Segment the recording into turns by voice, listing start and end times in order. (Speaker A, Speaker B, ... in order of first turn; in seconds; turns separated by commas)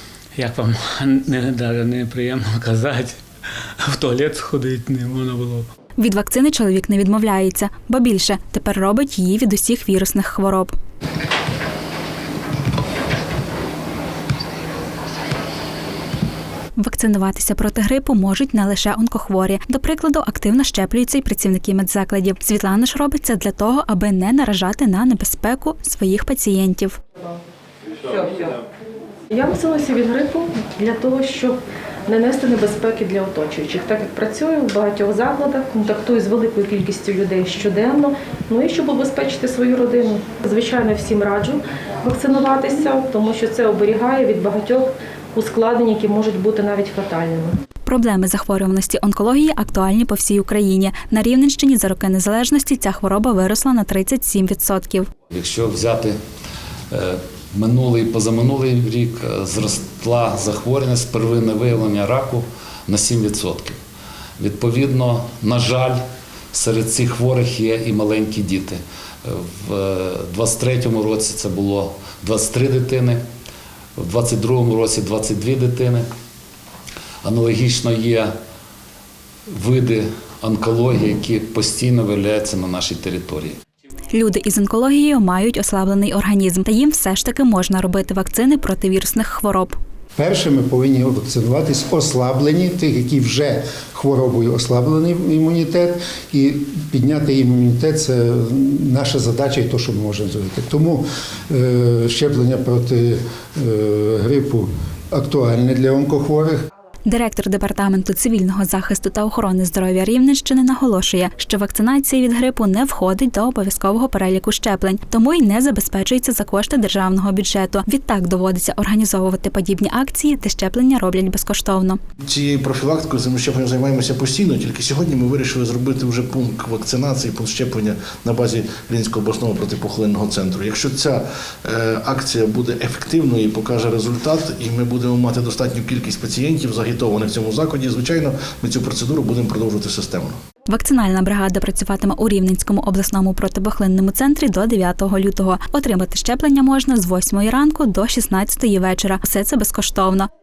Speaker A: 0.3-3.2, Speaker A: 3.8-5.7, Speaker B: 6.0-10.7, Speaker B: 16.8-27.0, Speaker C: 28.1-28.6, Speaker C: 29.3-47.6, Speaker B: 47.9-55.1, Speaker D: 55.3-56.1, Speaker D: 56.9-63.8, Speaker D: 64.4-66.0, Speaker D: 66.5-73.2, Speaker D: 74.0-76.0, Speaker D: 77.2-78.3, Speaker D: 79.5-83.6, Speaker B: 84.1-89.7, Speaker E: 90.2-106.6, Speaker B: 107.0-122.0, Speaker F: 122.2-140.3, Speaker B: 140.7-150.3